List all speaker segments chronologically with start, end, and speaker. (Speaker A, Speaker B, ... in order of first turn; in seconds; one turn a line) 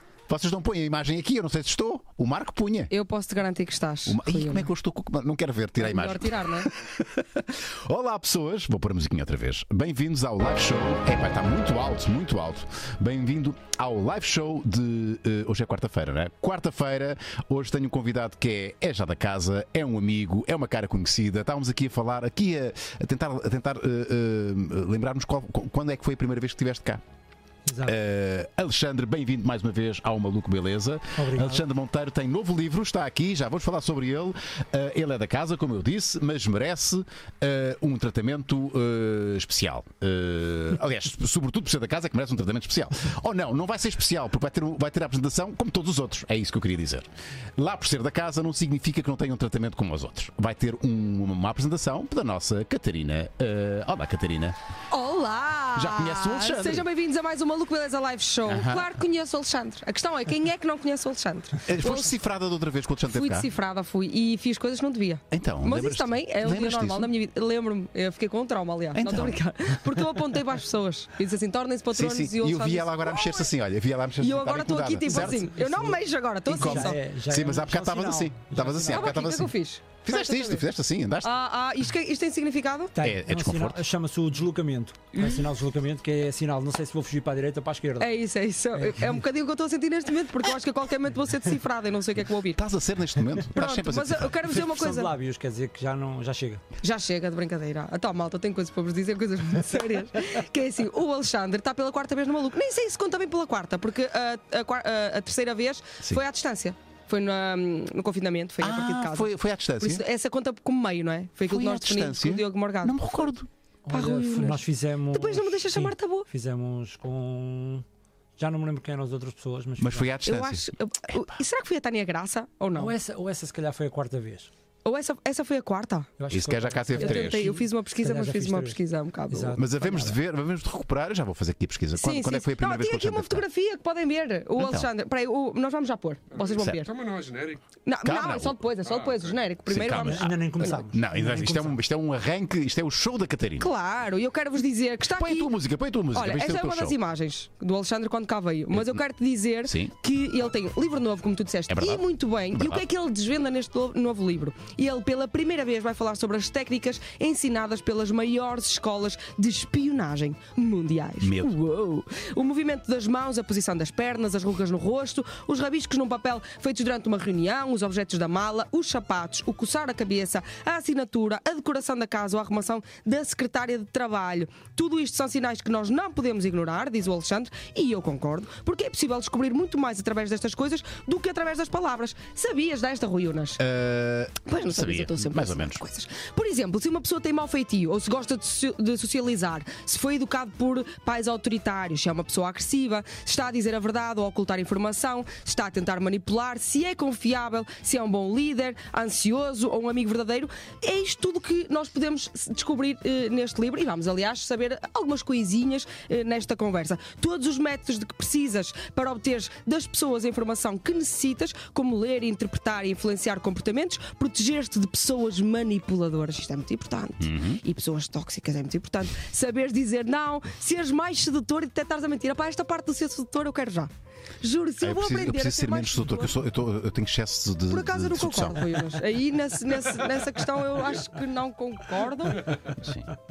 Speaker A: 0.3-2.9
Speaker B: 2.9-4.7
Speaker A: 4.0-27.0
Speaker B: 5.8-6.7
Speaker C: 27.6-27.9
Speaker A: 27.8-54.6
Speaker C: 31.1-31.6
Speaker B: 54.9-62.2
Speaker A: 55.7-56.9
Speaker A: 58.5-58.9
Speaker A: 61.6-63.5
Speaker B: 63.1-73.5
Speaker A: 65.3-67.1
Speaker A: 68.9-69.4
Speaker A: 71.9-75.5
Speaker B: 74.2-77.0
Speaker C: 75.1-79.2
Speaker A: 76.5-79.5
Speaker B: 78.9-80.6
Speaker A: 80.0-81.3
Speaker B: 81.2-82.9
Speaker C: 82.9-88.1
Speaker A: 83.0-83.8
Speaker B: 85.2-85.4
Speaker B: 88.0-92.6
Speaker C: 88.7-89.2
Speaker A: 92.5-94.6
Speaker B: 93.5-95.1
Speaker C: 94.5-96.6
Speaker B: 96.8-113.3
Speaker A: 108.6-110.0
Speaker A: 111.4-113.5
Speaker C: 113.8-117.8
Speaker B: 113.9-116.3
Speaker C: 118.4-120.1
Speaker A: 119.8-121.2
Speaker B: 120.2-122.9
Speaker C: 122.7-124.5
Speaker B: 124.8-126.1
Speaker C: 126.2-128.8
Speaker A: 126.3-127.4
Speaker B: 126.9-130.1
Speaker C: 129.3-130.2
Speaker A: 129.6-133.4
Speaker B: 132.0-136.9
Speaker A: 134.6-134.9
Speaker D: 136.3-137.6
Speaker A: 136.5-136.8
Speaker B: 137.8-140.8
Speaker A: 138.0-138.6
Speaker D: 138.8-139.3
Speaker A: 139.7-140.3
Speaker C: 139.9-141.8
Speaker A: 140.9-143.7
Speaker B: 143.6-145.5
Speaker A: 145.1-147.0
Speaker B: 146.1-183.6
Speaker A: 148.7-149.0
Speaker A: 149.6-149.9
Speaker A: 151.7-152.8
Speaker A: 161.2-161.5
Speaker A: 183.6-185.8
Speaker B: 184.5-226.4
Speaker A: 217.2-217.6
Speaker A: 224.8-228.7
Speaker B: 227.7-232.7
Speaker A: 232.6-233.1